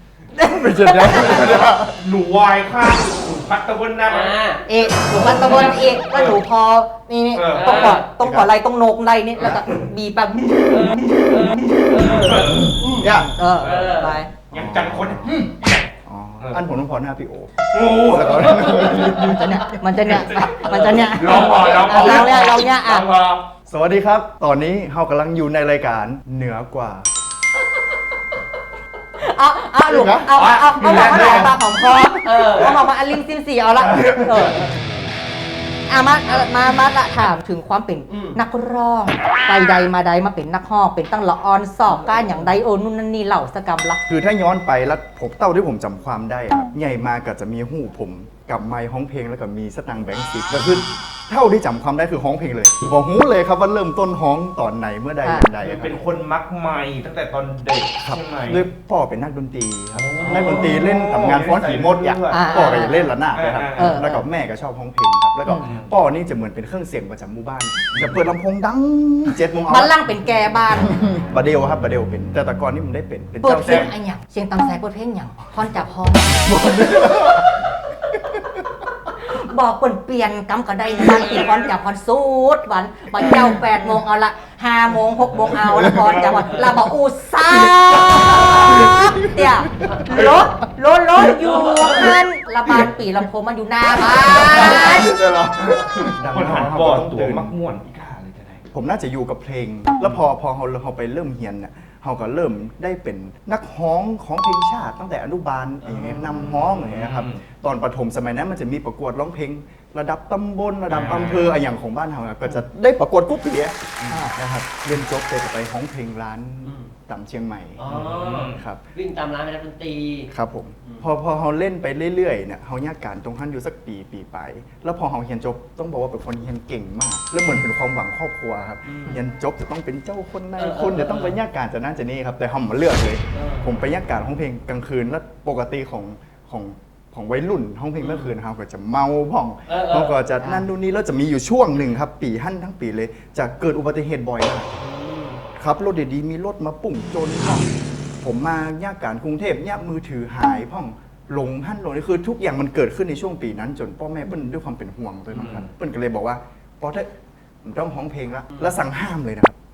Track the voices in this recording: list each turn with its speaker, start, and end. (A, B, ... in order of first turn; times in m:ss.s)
0:00.4-0:01.9 A
0:00.4-0:01.7 B
0:01.5-0:04.4 C
0:04.1-0:04.6 D
0:04.7-0:11.4 B
0:06.1-0:06.4 C
0:07.4-0:08.0 C
0:07.6-0:08.0 D
0:08.2-0:08.5 A
0:10.7-0:14.2 D
0:11.8-0:12.8 C
0:12.0-0:13.4 A
0:13.3-0:14.3 B
0:14.5-0:15.5 A
0:14.5-0:16.6 C
0:16.0-0:19.8 A
0:17.7-0:19.1 C
0:19.0-0:23.1 B
0:20.1-0:23.4 C
0:21.3-0:22.0 D
0:23.7-0:27.1 A
0:29.2-0:34.6 B
0:29.9-0:30.3 A
0:30.3-0:31.5 C
0:32.2-0:32.8 D
0:35.9-0:44.0 B
0:38.1-0:38.4 D
0:42.0-0:42.5 D
0:44.1-0:56.0 A
0:55.2-0:55.5 B
0:55.6-0:58.6 C
0:58.0-1:10.0 A
0:59.9-1:04.0 C
1:02.3-1:03.1 B
1:03.8-1:04.2 B
1:05.6-1:05.9 C
1:07.9-1:08.2 C
1:09.7-1:11.0 B
1:10.7-1:13.9 A
1:13.4-1:16.6 B
1:16.4-1:17.5 A
1:19.3-1:35.1 B
1:23.2-1:23.6 A
1:25.5-1:26.5 A
1:28.3-1:29.9 A
1:31.4-1:32.2 D
1:34.0-1:37.5 A
1:34.6-1:34.9 C
1:36.3-1:38.6 C
1:38.7-1:53.8 A
1:45.8-1:46.3 D
1:46.4-1:47.4 C
1:50.9-1:51.6 C
1:54.1-1:54.3 B
1:54.3-1:57.9 A
1:57.8-2:00.3 D
1:57.9-1:58.6 C
1:58.5-1:58.8 A
2:00.3-2:24.7 A
2:10.6-2:11.4 D
2:13.3-2:13.7 D
2:18.0-2:18.3 D
2:19.7-2:20.2 D
2:24.8-2:25.4 D
2:25.6-2:27.7 A
2:28.2-2:37.1 A
2:35.3-2:35.7 C
2:37.6-2:39.6 A